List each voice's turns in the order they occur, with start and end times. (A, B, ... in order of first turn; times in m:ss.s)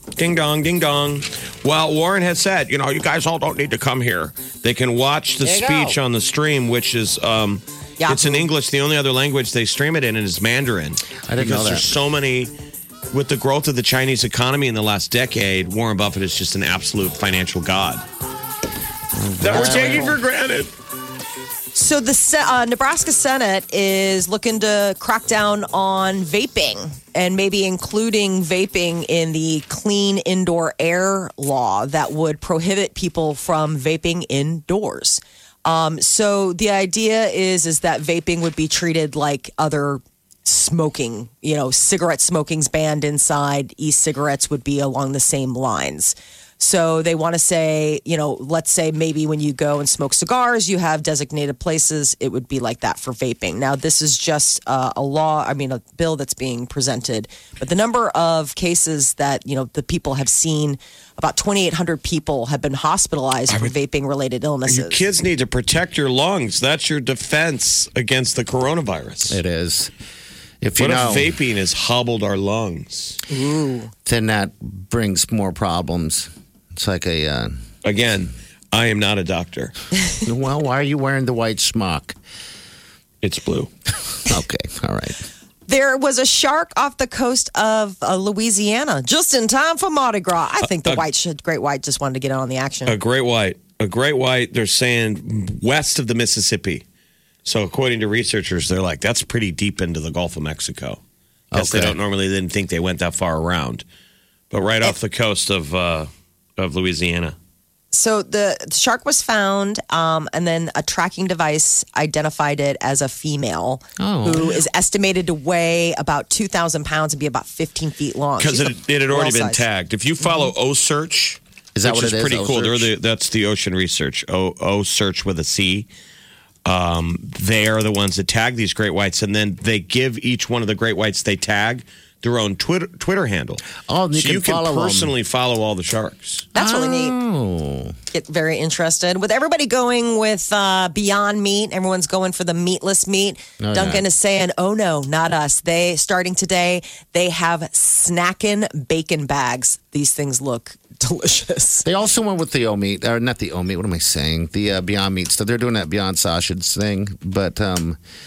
0:00.2-0:12.5 A
0:05.4-0:06.0 B
0:08.0-0:08.5 C
0:11.3-0:11.9 B
0:13.1-0:18.0 A
0:19.1-0:20.2 B
0:19.4-0:20.7 A
0:21.7-1:05.0 C
1:04.7-1:09.4 A
1:09.3-1:09.9 B
1:10.6-1:11.3 B
1:10.8-1:13.2 A
1:13.3-1:13.9 C
1:14.0-1:17.6 B
1:17.8-1:19.7 A
1:20.2-1:22.2 B
1:23.2-1:23.7 A
1:24.2-1:25.2 B
1:25.7-1:33.0 C
1:30.6-1:31.0 A
1:32.9-1:36.8 A
1:37.4-1:41.0 A
1:41.5-1:42.0 B
1:41.5-1:43.8 A
1:44.5-1:47.4 A
1:47.9-1:59.6 C
1:54.0-1:54.6 B
1:58.4-2:05.9 A
2:01.8-2:02.9 B
2:06.6-2:16.5 A
2:13.8-2:15.1 B
2:16.6-2:17.2 C
2:16.6-2:18.0 B
2:18.1-2:31.8 C
2:23.6-2:24.0 B
2:31.8-2:38.0 B